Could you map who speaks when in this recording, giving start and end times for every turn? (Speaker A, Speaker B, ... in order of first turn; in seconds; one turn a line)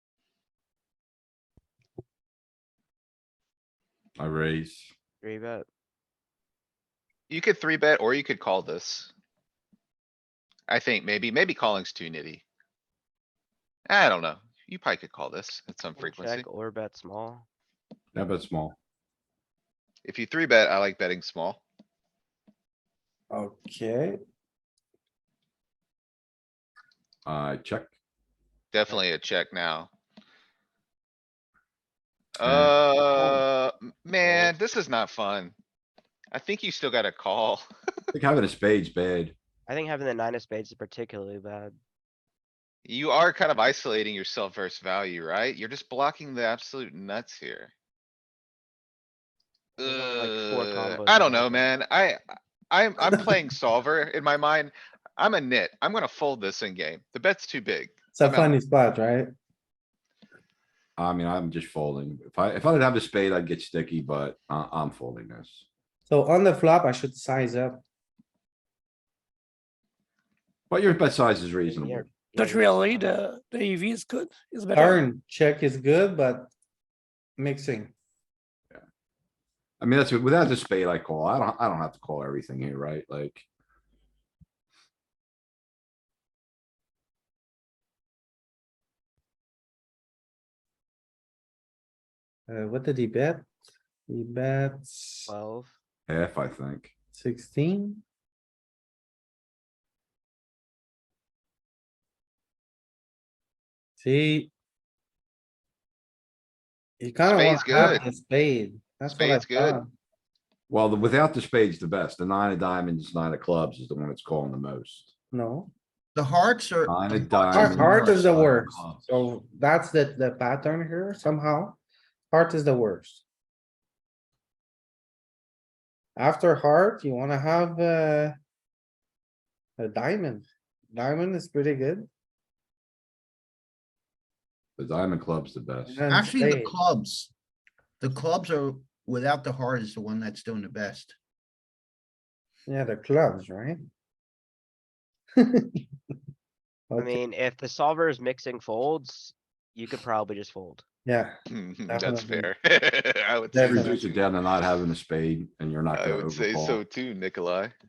Speaker A: 4.2-4.9
Speaker B: 5.2-5.7
Speaker C: 7.3-9.1
Speaker C: 10.7-12.4
Speaker C: 13.9-16.5
Speaker B: 16.0-17.5
Speaker A: 18.1-18.8
Speaker C: 20.1-21.6
Speaker D: 23.3-24.2
Speaker A: 27.2-27.9
Speaker C: 28.7-29.9
Speaker C: 32.4-35.5
Speaker A: 32.4-32.7
Speaker B: 34.2-34.6
Speaker C: 36.3-37.7
Speaker A: 38.1-39.4
Speaker B: 39.7-41.8
Speaker C: 42.9-47.7
Speaker B: 49.8-51.8
Speaker C: 49.8-52.2
Speaker C: 52.7-58.6
Speaker D: 58.1-59.3
Speaker A: 61.0-65.7
Speaker D: 66.1-67.8
Speaker A: 70.7-72.1
Speaker B: 71.7-73.2
Speaker E: 72.4-75.0
Speaker D: 74.7-76.5
Speaker D: 77.4-77.9
Speaker A: 79.8-83.5
Speaker D: 92.5-93.5
Speaker D: 94.1-95.3
Speaker B: 95.3-95.8
Speaker A: 96.1-96.9
Speaker D: 97.1-98.0
Speaker D: 104.0-104.5
Speaker D: 107.0-109.9
Speaker C: 107.3-108.0
Speaker C: 109.1-109.8
Speaker A: 110.7-115.1
Speaker D: 115.3-115.7
Speaker F: 116.2-118.2
Speaker A: 116.8-119.3
Speaker D: 117.5-121.8
Speaker D: 122.3-123.2
Speaker D: 126.2-128.3
Speaker D: 129.8-132.1
Speaker A: 134.8-136.0
Speaker D: 135.9-136.7
Speaker F: 136.1-137.3
Speaker F: 138.0-141.2
Speaker D: 142.7-143.9
Speaker D: 145.4-145.8
Speaker D: 146.9-147.2
Speaker B: 147.0-150.8
Speaker D: 151.1-151.4
Speaker C: 151.5-154.8
Speaker D: 151.9-152.5
Speaker D: 153.5-154.0
Speaker A: 153.6-156.8
Speaker C: 155.9-157.7